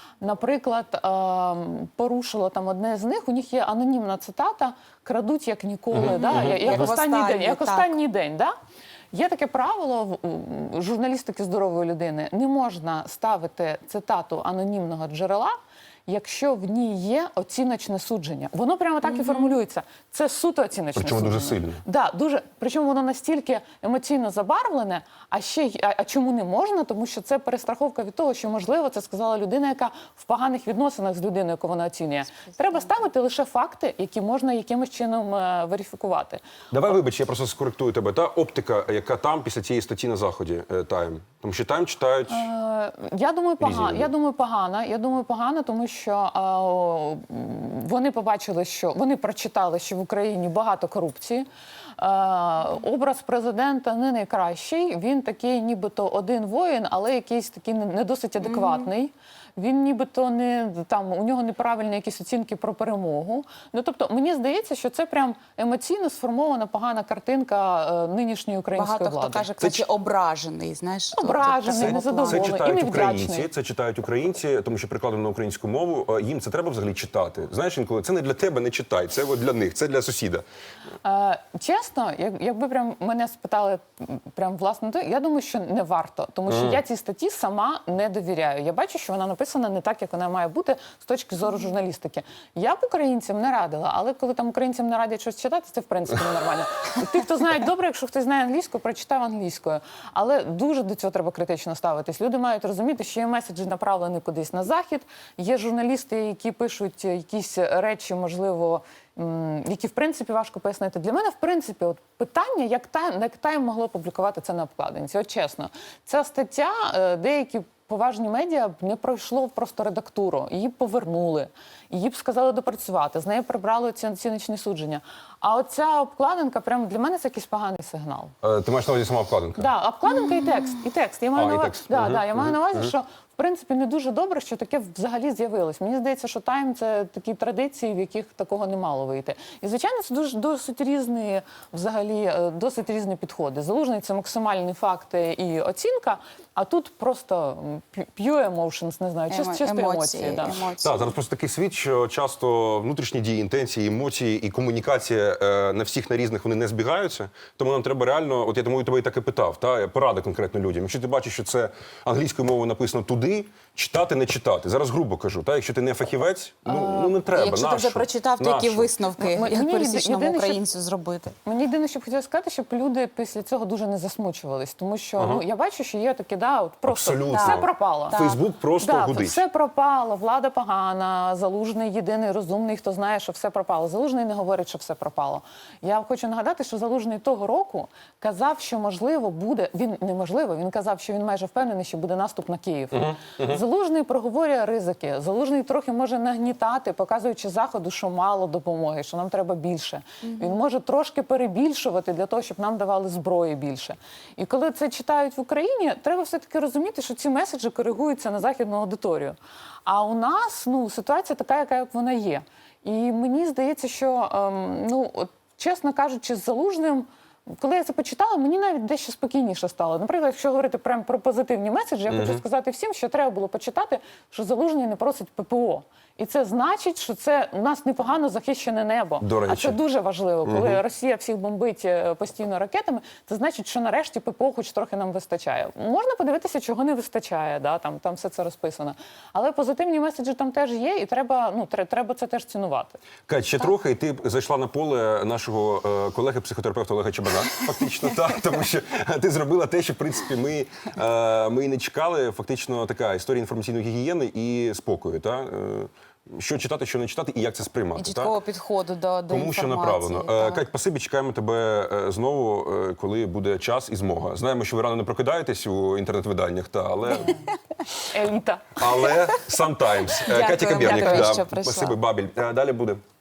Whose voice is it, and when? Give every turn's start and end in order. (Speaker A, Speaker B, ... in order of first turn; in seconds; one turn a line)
Speaker A: 0.2-8.5
Speaker B: 5.9-6.9
Speaker C: 6.0-8.0
Speaker A: 9.1-15.6
Speaker A: 16.1-36.4
Speaker B: 20.9-21.8
Speaker B: 36.7-42.5
Speaker A: 42.3-69.5
Speaker B: 43.6-44.1
Speaker C: 68.8-72.5
Speaker B: 69.6-69.9
Speaker A: 71.2-73.5
Speaker B: 71.6-80.5
Speaker A: 81.0-128.3
Speaker B: 86.5-86.8
Speaker B: 128.4-129.7
Speaker A: 129.6-150.6
Speaker B: 131.3-132.9
Speaker C: 149.3-151.1
Speaker B: 150.8-168.9
Speaker C: 166.7-171.4
Speaker A: 169.2-170.6
Speaker A: 171.5-178.2
Speaker B: 175.2-175.4
Speaker B: 176.9-179.4
Speaker C: 177.3-178.4
Speaker A: 178.8-243.0
Speaker B: 192.9-193.6
Speaker B: 222.1-222.4
Speaker B: 229.2-229.8
Speaker B: 230.5-230.8
Speaker B: 243.3-258.4
Speaker C: 258.0-260.7
Speaker B: 259.3-267.4
Speaker A: 268.0-268.9
Speaker B: 268.8-273.0
Speaker C: 270.3-272.0
Speaker A: 270.4-271.4